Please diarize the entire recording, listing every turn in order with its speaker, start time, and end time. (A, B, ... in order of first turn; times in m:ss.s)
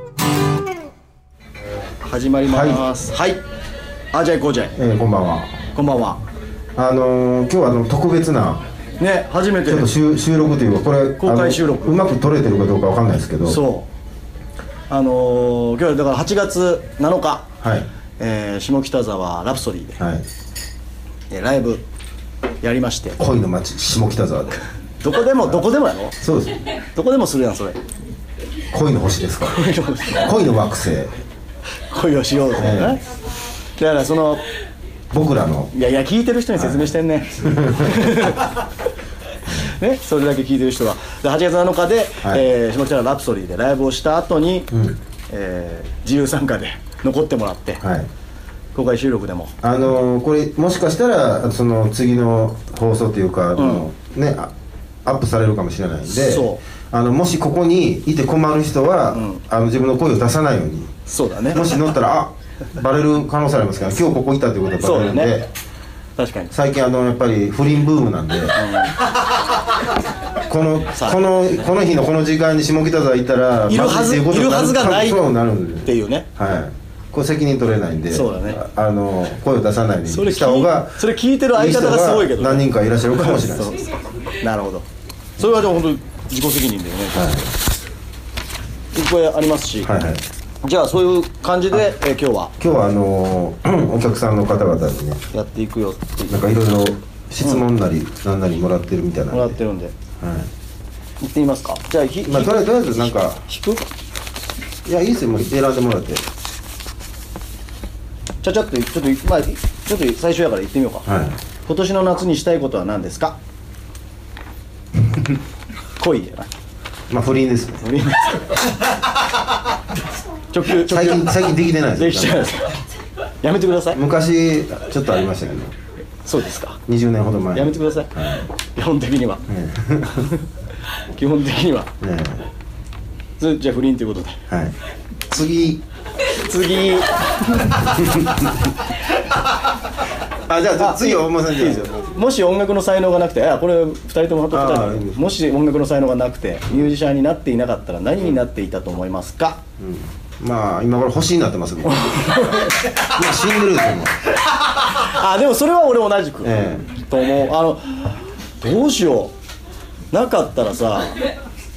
0:02.0-0:03.4 A
0:02.5-0:02.9 B
0:04.1-0:04.8 A
0:04.8-0:05.6 B
0:05.8-0:06.2 A
0:06.8-0:08.6 B
0:09.0-0:09.9 A
0:09.7-0:13.6 B
0:11.2-0:12.0 A
0:13.4-0:13.9 A
0:14.9-0:17.5 A
0:17.6-0:17.9 B
0:18.2-0:20.0 A
0:20.0-0:20.3 B
0:21.3-0:21.8 A
0:22.6-0:23.2 A
0:23.2-0:24.6 B
0:25.0-0:26.2 A
0:26.2-0:26.6 B
0:27.0-0:27.8 A
0:28.7-0:29.6 B
0:29.5-0:30.3 A
0:30.1-0:31.1 B
0:31.9-0:33.0 A
0:32.6-0:33.0 B
0:33.8-0:34.4 A
0:35.1-0:35.7 B
0:35.7-0:38.5 A
0:36.6-0:38.3 B
0:39.5-0:44.7 A
0:44.7-0:45.0 B
0:45.3-0:47.8 A
0:47.8-0:48.1 B
0:48.8-0:49.6 A
0:49.6-0:54.5 B
0:53.6-0:53.9 A
0:55.0-1:00.9 B
0:56.1-0:56.6 A
0:59.1-0:59.4 A
1:01.1-1:01.7 A
1:01.5-1:05.5 B
1:04.8-1:05.4 A
1:06.2-1:06.5 A
1:06.5-1:08.7 B
1:08.6-1:08.9 A
1:10.4-1:21.0 B
1:13.7-1:15.3 A
1:15.8-1:16.3 A
1:18.1-1:18.6 A
1:20.1-1:24.8 A
1:21.5-1:23.8 B
1:25.4-1:27.5 A
1:27.1-1:27.5 B
1:28.9-1:29.9 A
1:29.8-1:30.2 B
1:30.6-1:32.6 A
1:32.6-1:35.2 B
1:35.3-1:36.5 A
1:36.3-1:39.6 B
1:39.3-1:40.0 A
1:40.2-1:40.5 B
1:41.2-1:43.8 A
1:42.2-1:43.4 B
1:44.8-1:46.2 B
1:48.4-1:51.1 A
1:51.1-1:51.4 B
1:51.7-1:53.4 A
1:56.0-1:56.5 A
1:57.1-1:57.8 B
1:57.8-1:58.6 A
2:00.5-2:01.3 A
2:00.8-2:02.5 B
2:02.0-2:02.8 A
2:03.4-2:04.0 A
2:03.9-2:05.7 B
2:06.2-2:06.8 A
2:06.9-2:08.4 B
2:07.5-2:09.4 A
2:09.5-2:10.3 B
2:10.1-2:10.5 A
2:11.1-2:11.9 A
2:12.0-2:12.4 B
2:13.4-2:14.4 A
2:14.5-2:14.8 B
2:15.3-2:15.8 B
2:16.3-2:18.0 A
2:18.0-2:18.5 B
2:20.5-2:22.2 B
2:20.8-2:29.6 A
2:24.5-2:25.2 B
2:29.8-2:34.1 B
2:31.9-2:32.8 A
2:34.8-2:39.3 A
2:36.4-2:36.8 B
2:40.1-2:41.2 A